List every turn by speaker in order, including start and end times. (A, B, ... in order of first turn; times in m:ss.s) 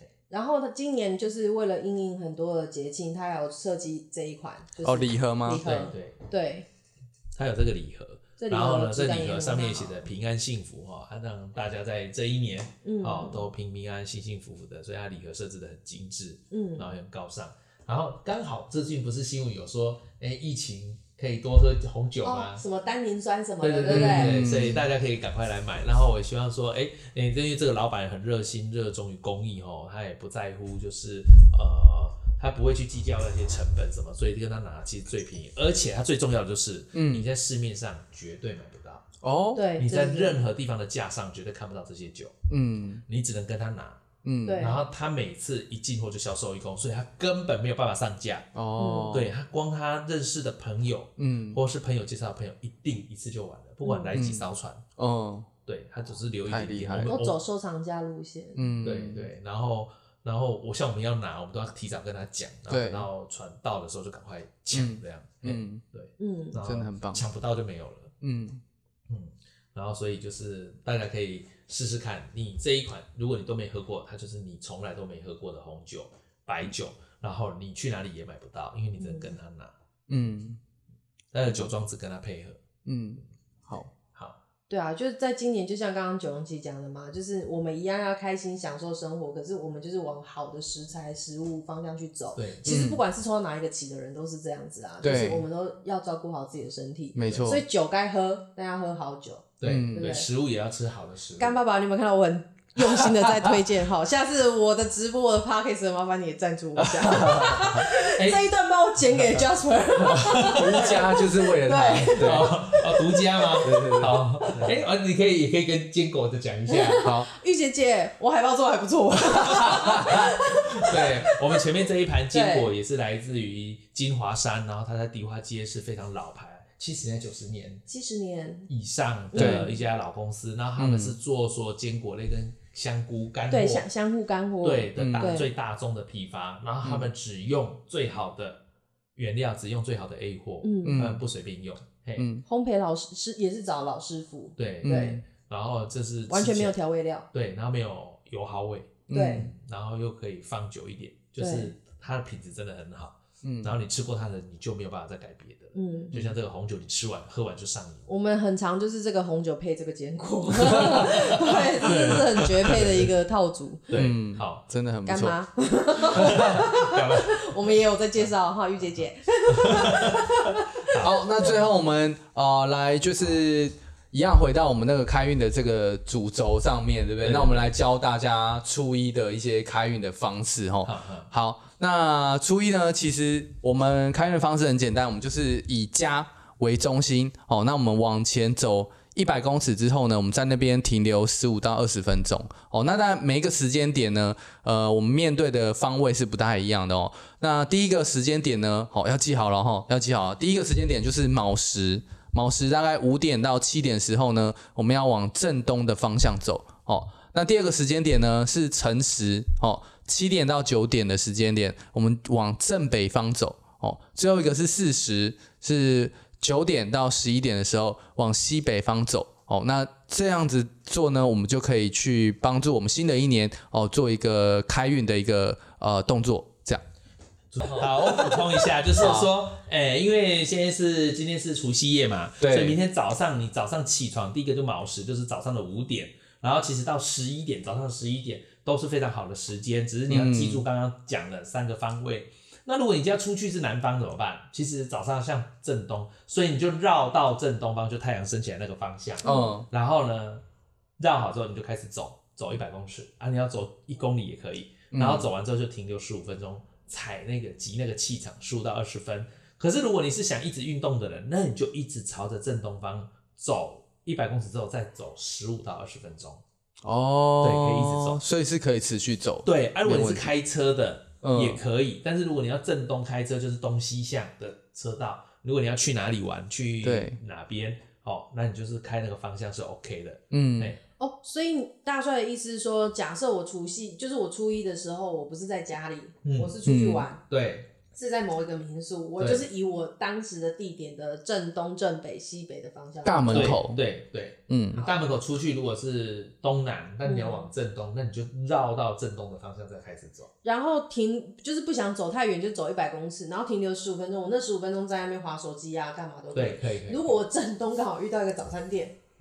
0:00.3-0:06.7 A
0:04.8-0:05.7 B
0:05.6-0:06.2 C
0:07.4-0:22.6 C
0:08.4-0:10.0 A
0:12.8-0:13.4 A
0:16.5-0:16.9 A
0:22.2-0:24.5 A
0:23.6-0:39.1 C
0:23.9-0:24.8 B
0:37.0-0:37.3 B
0:39.2-0:39.6 B
0:39.6-0:40.4 A
0:39.8-0:42.4 C
0:42.5-0:43.0 B
0:43.1-0:44.0 C
0:44.2-0:44.7 B
0:44.5-0:44.8 A
0:44.6-0:48.5 C
0:48.6-0:49.3 B
0:48.8-0:49.3 A
0:49.1-0:54.8 C
0:51.2-0:51.6 B
0:53.8-0:54.2 A
0:54.1-0:55.5 B
0:55.7-0:57.4 C
0:56.5-0:57.2 B
0:57.1-0:58.7 A
0:58.6-0:59.3 B
0:58.8-1:08.1 C
1:02.7-1:03.1 B
1:04.7-1:05.8 B
1:06.2-1:06.6 A
1:06.6-1:07.2 B
1:08.2-1:08.6 B
1:09.1-1:19.7 C
1:19.0-1:19.3 A
1:20.1-1:20.6 B
1:21.3-1:22.6 C
1:22.8-1:23.9 B
1:24.1-1:24.4 C
1:24.7-1:40.3 A
1:32.4-1:32.7 C
1:32.7-1:33.0 B
1:35.0-1:35.4 B
1:37.2-1:37.6 B
1:39.6-1:41.6 C
1:39.6-1:40.1 B
1:41.4-1:52.5 A
1:46.8-1:47.8 B
1:47.8-1:48.4 C
1:49.1-1:49.4 C
1:50.0-1:51.0 C
1:50.5-1:52.6 B
1:52.2-1:57.1 C
1:53.6-1:54.7 B
1:56.7-2:01.6 A
1:57.0-1:57.3 B
1:59.5-2:07.8 C
1:59.6-2:00.3 B
2:02.3-2:02.7 A
2:07.9-2:08.7 A
2:08.7-2:13.8 C
2:09.3-2:09.7 A
2:09.4-2:09.7 B
2:10.8-2:11.2 B
2:13.5-2:15.5 A
2:14.6-2:18.6 C
2:15.0-2:15.3 B
2:19.2-2:22.3 C
2:20.6-2:21.1 A
2:20.8-2:21.2 B
2:22.2-2:22.4 B
2:22.5-2:25.2 A
2:24.6-2:26.8 C
2:26.3-2:27.3 A
2:27.3-2:38.1 C
2:29.1-2:29.5 B
2:29.1-2:29.5 A
2:31.4-2:31.7 A
2:33.4-2:33.8 B
2:35.8-2:36.2 A
2:38.1-2:43.9 A
2:40.6-2:43.1 C
2:43.9-2:44.6 C
2:44.0-2:45.4 B
2:45.1-2:51.5 A
2:46.1-2:47.6 C
2:46.2-2:46.6 B
2:49.5-2:51.6 C
2:51.0-3:46.8 B
2:57.2-2:57.6 C
3:00.8-3:01.3 C
3:47.5-4:10.4 C
3:47.8-3:48.4 B
3:49.0-3:49.3 B
3:52.4-3:52.8 B
4:00.1-4:00.6 B
4:09.2-4:09.5 A
4:09.2-4:09.7 B
4:11.0-4:26.4 C
4:14.9-4:15.3 B
4:26.8-4:30.3 B
4:27.4-4:28.2 C
4:29.4-4:40.8 C
4:31.2-4:31.6 B
4:36.8-4:37.2 B
4:40.3-4:40.8 B
4:41.0-4:47.2 A
4:46.2-4:46.6 C
4:46.7-4:47.1 B
4:47.3-4:47.7 C
4:47.9-4:53.6 A
4:49.2-4:49.4 C
4:53.0-4:53.8 B
4:53.3-5:00.3 C
4:54.5-4:54.9 B
4:57.0-4:57.4 A
5:00.4-5:09.0 A
5:06.3-5:07.2 C